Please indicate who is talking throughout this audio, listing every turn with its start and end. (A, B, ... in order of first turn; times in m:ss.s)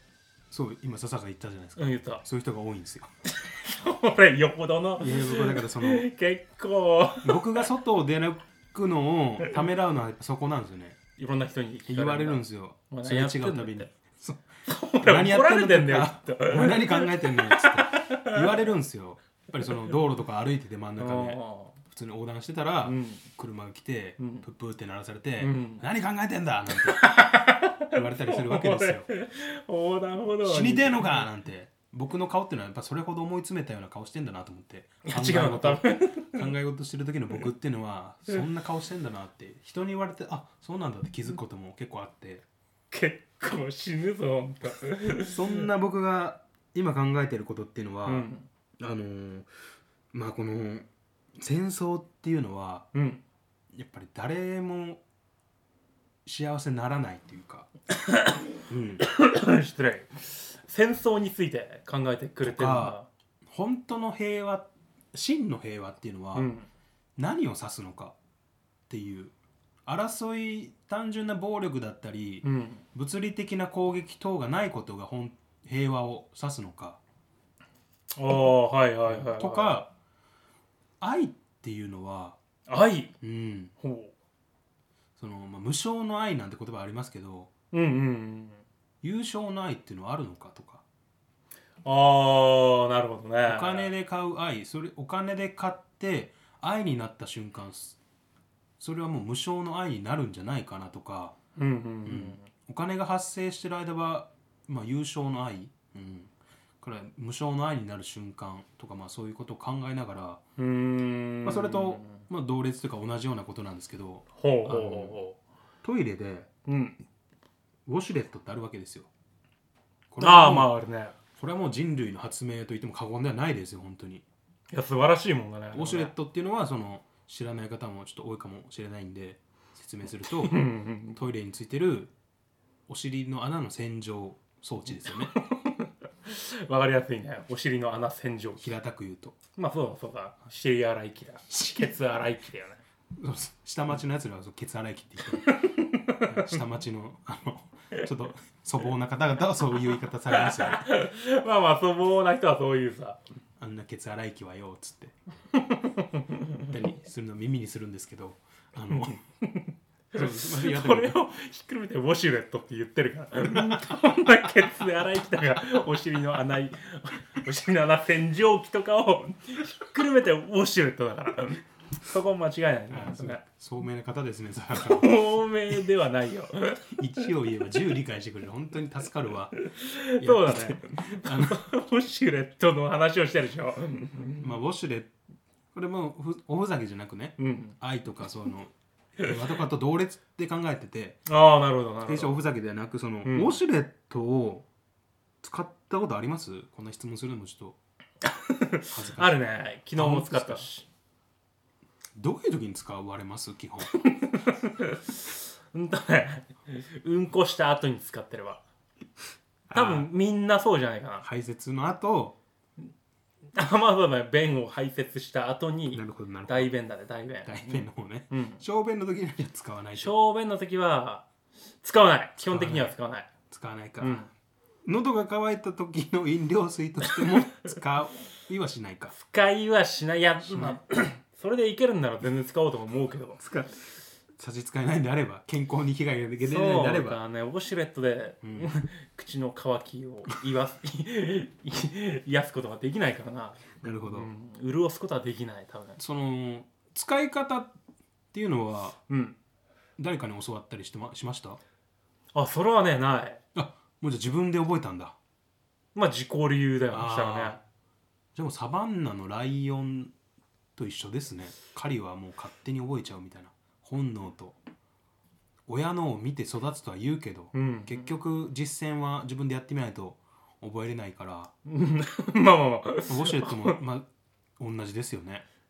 0:00.5-0:03.1 A
0:01.8-0:02.2 B
0:03.2-0:07.6 B
0:05.0-0:06.1 A
0:07.2-0:11.0 A
0:11.2-0:13.9 B
0:11.9-0:14.5 A
0:14.6-0:18.6 B
0:15.0-0:27.1 A
0:21.0-0:21.8 B
0:22.8-0:23.2 B
0:24.2-0:24.4 B
0:25.4-0:25.8 B
0:26.7-0:31.3 B
0:27.9-0:29.1 A
0:30.4-0:42.4 A
0:35.0-0:36.5 B
0:42.9-0:45.7 B
0:45.2-0:49.5 A
0:48.0-0:48.5 B
0:50.1-0:52.9 A
0:52.9-0:53.2 B
0:53.7-0:55.0 A
0:56.2-0:57.7 A
0:57.9-0:58.5 B
0:58.7-0:59.0 A
0:59.0-1:03.1 B
1:02.4-1:06.5 A
1:06.3-1:06.7 B
1:07.2-1:08.2 A
1:08.9-1:09.3 A
1:09.8-1:17.0 A
1:12.4-1:12.8 B
1:18.1-1:19.8 B
1:19.1-1:19.9 A
1:21.0-1:22.4 A
1:22.7-1:23.1 B
1:23.2-1:23.7 A
1:23.8-1:24.1 B
1:25.2-1:27.5 A
1:27.7-1:28.6 B
1:29.0-1:30.8 A
1:31.8-1:33.9 B
1:33.4-1:38.0 A
1:38.8-1:41.4 A
1:41.6-1:42.4 B
1:42.0-1:50.4 A
1:50.6-1:52.2 B
1:51.4-1:55.2 A
1:54.4-1:55.4 B
1:55.8-1:56.5 A
1:56.6-1:57.0 B
1:57.9-1:59.1 A
2:00.1-2:00.7 A
2:00.2-2:01.2 B
2:01.4-2:04.2 A
2:04.7-2:06.1 B
2:05.7-2:10.6 A
2:10.2-2:11.2 B
2:11.1-2:12.1 A
2:12.9-2:15.3 A
2:15.0-2:18.7 B
2:18.6-2:19.4 A
2:19.5-2:22.8 B
2:21.5-2:21.9 A
2:23.2-2:30.9 A
2:25.4-2:26.6 B
2:30.3-2:33.2 B
2:33.6-2:35.1 A
2:35.5-2:36.6 B
2:36.6-2:39.2 A
2:38.9-2:53.4 B
2:40.1-2:41.2 A
2:52.9-2:55.1 A
2:54.7-2:56.9 B
2:56.9-2:59.6 A
2:59.6-3:04.5 B
3:00.2-3:01.6 A
3:04.4-3:05.1 A
3:05.7-3:11.2 A
3:07.4-3:07.8 B
3:11.2-3:12.4 B
3:12.0-3:14.7 A
3:13.2-3:13.5 B
3:15.4-3:17.8 A
3:18.2-3:20.8 B
3:18.9-3:19.4 A
3:19.9-3:20.7 A
3:22.2-3:24.0 A
3:23.9-3:28.6 B
3:29.7-3:30.1 A
3:29.7-3:31.2 B
3:31.2-3:32.4 A
3:33.5-3:38.6 B
3:35.9-3:36.7 A
3:37.4-3:40.1 A
3:40.0-3:41.2 B
3:41.8-3:43.3 B
3:42.4-3:42.9 A
3:43.5-3:44.3 A
3:44.0-3:44.3 B
3:44.8-3:49.1 A
3:47.1-3:47.4 B
3:49.1-3:53.4 B
3:50.5-3:50.8 A
3:53.4-3:53.8 A
3:54.4-3:57.2 A
3:56.4-4:06.0 B
3:58.4-3:58.7 A
4:03.8-4:04.3 A
4:06.0-4:07.7 A
4:08.3-4:09.0 A
4:09.1-4:09.4 B
4:10.0-4:11.6 A
4:12.3-4:13.4 B
4:13.5-4:15.1 A
4:15.9-4:17.6 B
4:16.9-4:17.6 A
4:18.3-4:20.1 A
4:20.8-4:24.6 A
4:25.7-4:31.5 A
4:27.5-4:28.1 B
4:31.6-4:33.8 B
4:33.1-4:34.1 A
4:34.6-4:35.4 A